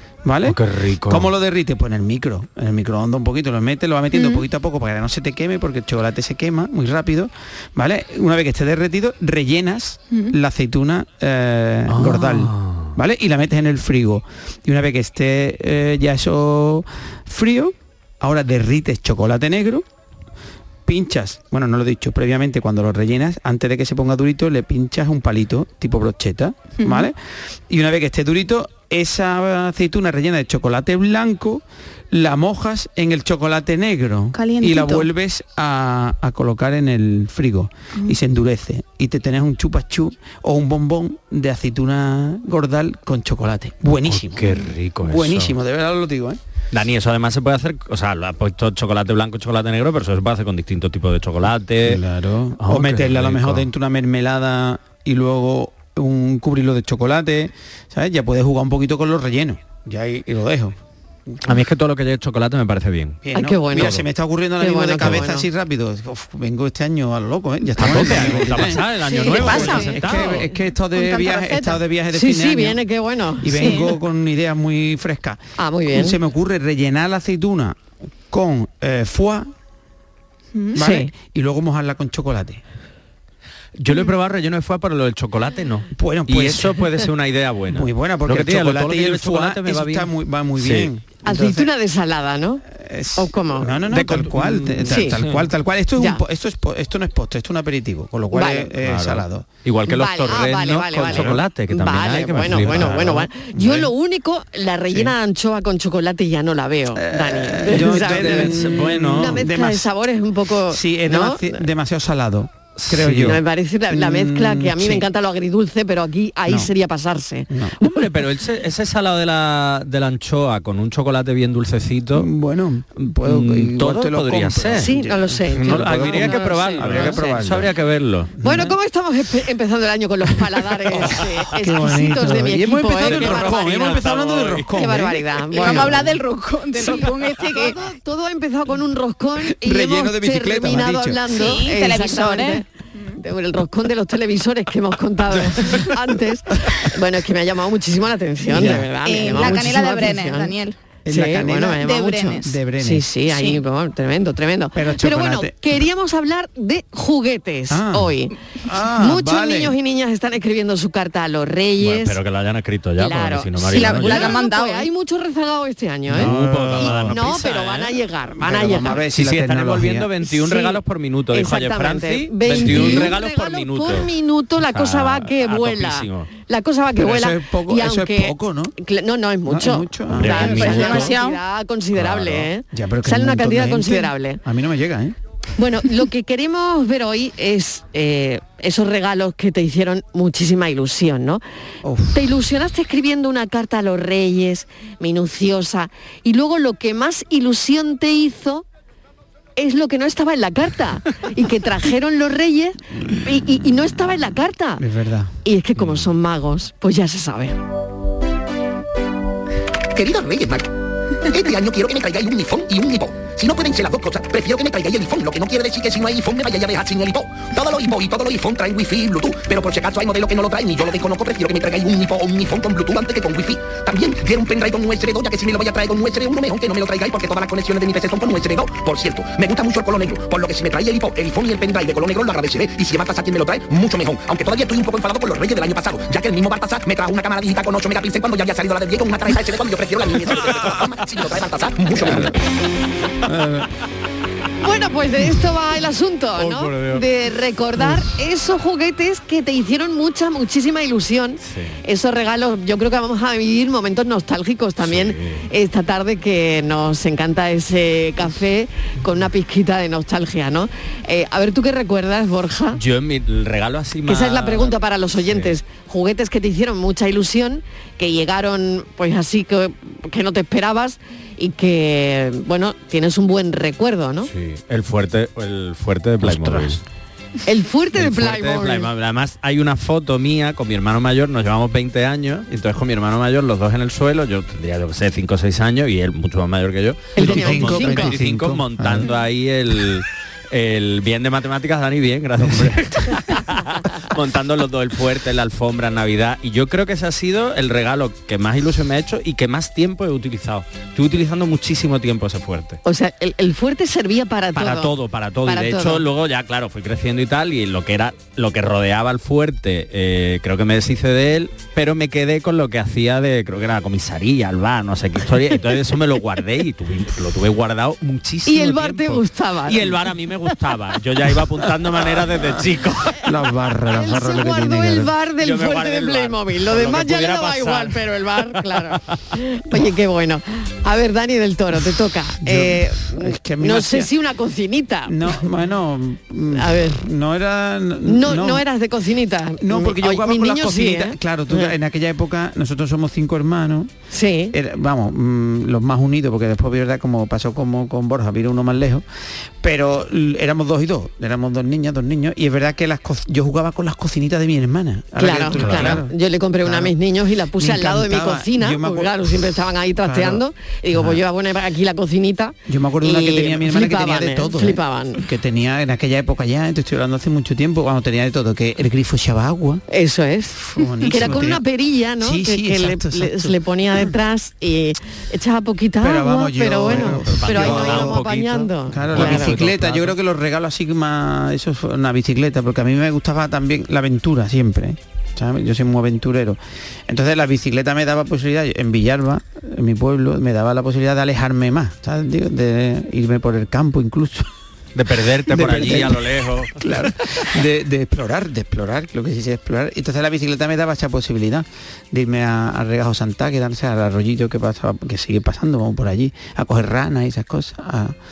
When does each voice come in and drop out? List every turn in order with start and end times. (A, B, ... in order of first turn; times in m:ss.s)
0:00.2-0:19.8 A
0:00.5-0:01.3 B
0:04.1-0:04.4 C
0:11.9-0:12.9 B
0:20.9-0:27.2 A
0:26.8-0:27.1 C
0:27.7-0:44.5 A
0:34.3-0:35.1 C
0:44.1-0:45.6 B
0:45.1-0:46.4 A
0:46.7-0:52.0 B
0:51.8-1:00.8 A
0:52.6-0:53.7 B
1:01.3-1:01.5 A
1:01.4-1:03.2 B
1:03.2-1:12.8 A
1:03.3-1:04.0 D
1:03.8-1:04.0 B
1:04.6-1:05.5 D
1:07.8-1:10.4 B
1:09.1-1:09.9 D
1:09.2-1:10.0 C
1:10.9-1:11.8 C
1:12.1-1:13.9 D
1:13.4-1:19.5 A
1:13.6-1:14.0 C
1:15.6-1:16.2 D
1:20.6-1:20.8 C
1:20.8-1:22.6 A
1:20.8-1:21.1 D
1:23.8-1:30.9 B
1:26.0-1:26.9 A
1:27.7-1:31.7 A
1:31.2-1:32.6 D
1:32.6-1:39.4 A
1:33.2-1:33.8 D
1:33.9-1:35.5 B
1:34.9-1:35.2 D
1:36.0-1:36.2 D
1:38.3-1:38.7 D
1:38.8-1:43.3 B
1:39.9-1:48.6 D
1:41.0-1:41.4 A
1:42.5-1:43.9 A
1:47.0-1:49.9 A
1:47.8-1:49.4 B
1:49.2-1:51.6 D
1:50.7-1:55.1 A
1:52.8-1:53.4 B
1:53.2-1:57.5 D
1:56.5-1:56.7 A
1:57.5-1:57.8 A
1:57.8-2:02.3 B
2:02.1-2:07.7 A
2:03.2-2:04.9 B
2:04.8-2:07.1 D
2:05.5-2:08.3 B
2:08.4-2:08.8 A
2:08.4-2:13.8 D
2:10.9-2:16.2 A
2:12.7-2:15.0 B
2:14.8-2:16.0 D
2:15.6-2:17.8 C
2:16.8-2:30.5 D
2:19.4-2:21.2 A
2:21.3-2:23.2 C
2:28.5-2:29.7 A
2:29.0-2:30.8 C
2:31.1-2:33.1 A
2:31.1-2:38.3 D
2:31.8-2:32.6 C
2:33.3-2:33.6 C
2:34.8-2:35.8 A
2:37.7-2:39.8 A
2:39.0-2:42.2 D
2:41.8-2:44.4 B
2:43.0-2:49.0 D
2:43.7-2:44.9 C
2:46.1-2:47.5 A
2:46.1-2:48.0 B
2:48.4-2:50.1 A
2:49.1-2:56.3 B
2:50.2-2:50.8 D
2:51.3-3:04.4 D
2:52.5-2:53.2 A
2:57.0-2:58.8 A
2:59.5-3:01.1 A
3:00.1-3:01.1 B
3:00.3-3:01.4 C
3:02.0-3:05.2 A
3:05.6-3:11.4 D
3:11.8-3:12.3 A
3:12.1-3:18.6 D
3:19.6-3:24.8 D
3:24.8-3:25.3 A
3:25.4-3:27.6 D
3:25.8-3:26.1 B
3:30.0-3:30.7 E
3:31.3-4:02.3 E
4:02.0-4:02.3 A
4:03.2-4:03.7 A
4:04.6-4:22.8 D
4:06.4-4:07.0 B
4:11.4-4:11.8 B
4:14.8-4:15.5 B
4:22.7-4:25.6 B
4:24.1-4:34.3 D
4:34.3-4:36.8 B
4:36.2-4:36.8 A
4:37.5-4:38.9 D
4:38.0-5:02.8 B
4:47.2-4:48.2 D
4:47.2-4:49.1 A
4:52.4-4:52.8 A
5:02.8-5:04.9 D
5:04.6-5:23.2 B
5:05.5-5:06.0 D
5:18.5-5:20.0 D
5:22.2-5:22.6 A
5:23.2-5:25.1 A
5:23.9-5:35.5 D
5:25.4-5:29.2 B
5:32.4-5:34.1 A
5:35.1-5:38.6 A
5:36.5-5:37.0 D
5:38.1-5:41.7 D
5:39.6-5:43.9 A
5:44.1-5:44.6 D
5:44.5-5:49.0 A
5:49.6-5:57.0 A
5:55.2-6:05.2 D
5:55.5-5:56.0 B
5:57.6-6:01.2 A
6:02.7-6:09.8 A
6:09.9-6:19.6 D
6:10.7-6:11.7 A
6:12.2-6:14.1 A
6:16.0-6:18.2 A
6:16.9-6:20.2 B
6:18.9-6:34.5 A
6:35.0-6:37.1 B
6:35.5-6:48.2 A